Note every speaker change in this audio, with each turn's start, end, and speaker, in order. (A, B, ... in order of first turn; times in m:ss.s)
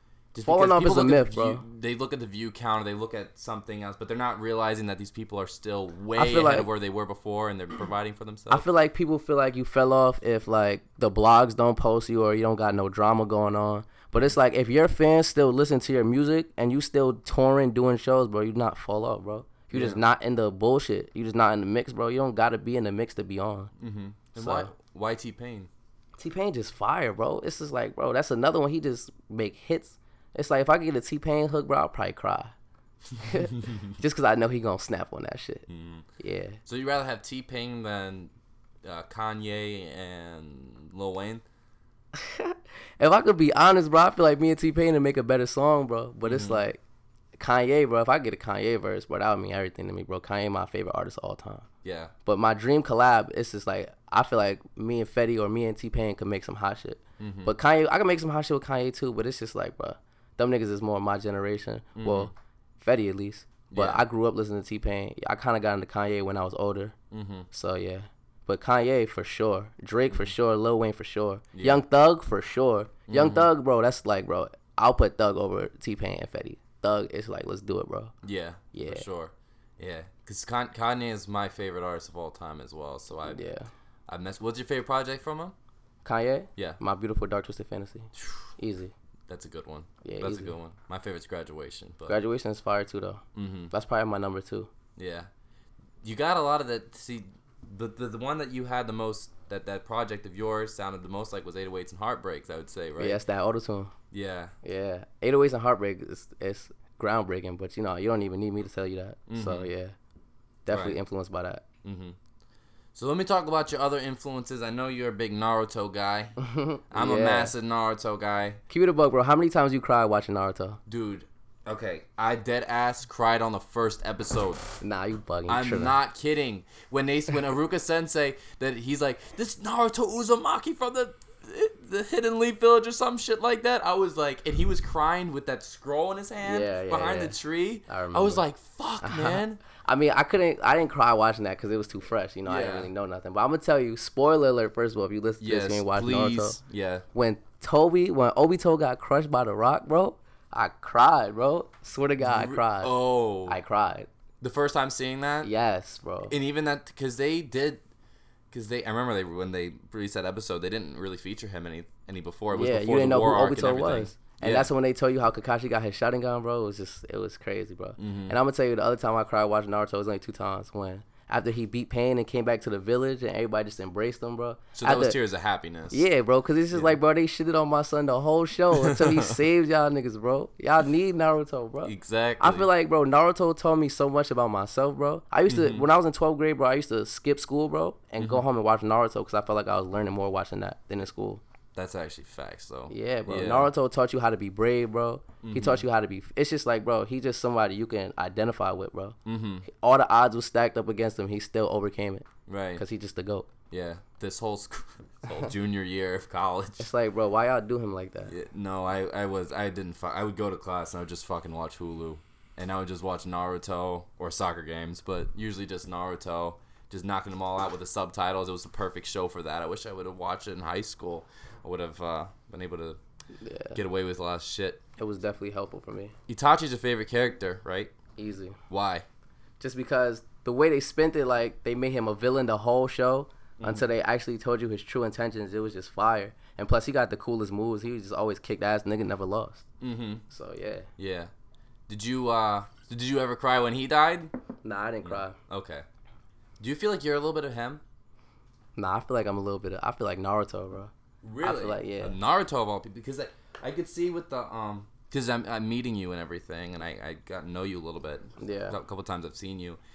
0:00.3-0:08.6 A
0:00.4-0:01.6 B
0:06.2-0:06.7 B
0:08.5-0:23.7 B
0:19.7-0:20.0 A
0:23.8-0:25.7 A
0:24.4-0:24.7 B
0:26.2-0:32.5 B
0:33.2-0:35.6 B
0:33.2-0:33.9 A
0:35.7-0:36.1 A
0:36.2-0:36.6 B
0:36.6-0:38.3 A
0:38.8-0:41.4 A
0:42.1-0:46.8 B
0:46.2-0:46.6 A
0:47.4-0:51.6 B
0:51.8-0:52.1 A
0:52.3-1:07.0 B
0:57.2-0:57.5 A
1:02.0-1:02.3 A
1:03.7-1:04.0 A
1:07.1-1:07.5 A
1:07.5-1:18.1 B
1:11.5-1:11.8 A
1:13.1-1:13.5 A
1:18.2-1:23.4 A
1:18.7-1:19.1 B
1:23.3-1:23.7 B
1:24.1-1:25.5 A
1:26.0-1:28.9 B
1:28.2-1:28.5 A
1:29.3-1:32.2 A
1:30.0-1:30.5 B
1:32.1-1:34.7 B
1:33.4-1:33.7 A
1:35.0-1:35.3 A
1:36.0-1:43.2 A
1:43.0-1:43.9 B
1:44.1-1:44.5 A
1:44.6-1:49.9 B
1:49.3-1:49.7 A
1:50.7-1:51.6 B
1:50.7-1:51.0 A
1:51.8-1:52.2 A
1:53.0-1:56.4 A
1:56.4-1:57.5 B
1:56.9-1:58.6 A
1:58.7-2:00.8 B
2:00.9-2:04.7 A
2:04.8-2:05.9 B
2:05.5-2:19.6 A
2:16.4-2:17.4 B
2:17.9-2:18.4 B
2:19.0-2:26.6 B
2:22.4-2:22.9 A
2:25.4-2:27.0 A
2:27.1-2:32.9 B
2:32.2-2:33.6 A
2:33.4-2:34.1 B
2:34.4-2:35.5 A
2:35.4-2:36.3 B
2:36.3-2:37.8 A
2:38.5-2:44.7 A
2:42.5-2:55.2 B
2:48.0-2:48.4 A
2:54.8-2:56.0 A
2:55.9-3:11.4 B
2:58.8-2:59.4 A
3:01.8-3:02.7 A
3:05.5-3:05.9 A
3:11.8-3:13.7 A
3:12.9-3:22.3 B
3:15.4-3:15.8 A
3:19.3-3:19.7 A
3:22.5-3:22.8 A
3:22.8-3:23.5 B
3:23.7-3:26.9 A
3:26.8-3:28.3 B
3:28.3-3:43.0 A
3:43.4-3:43.8 B
3:43.7-3:44.8 A
3:45.0-3:46.1 B
3:46.3-3:47.9 A
3:48.2-3:48.6 B
3:48.7-3:49.1 A
3:49.6-3:59.6 B
3:53.6-3:53.8 A
3:59.8-4:00.2 A
4:00.3-4:00.9 B
4:01.0-4:01.3 A
4:01.9-4:04.3 A
4:04.6-4:05.4 B
4:05.0-4:05.8 A
4:06.6-4:07.8 A
4:08.8-4:10.9 B
4:11.2-4:19.8 A
4:11.4-4:12.2 B
4:18.4-4:18.8 B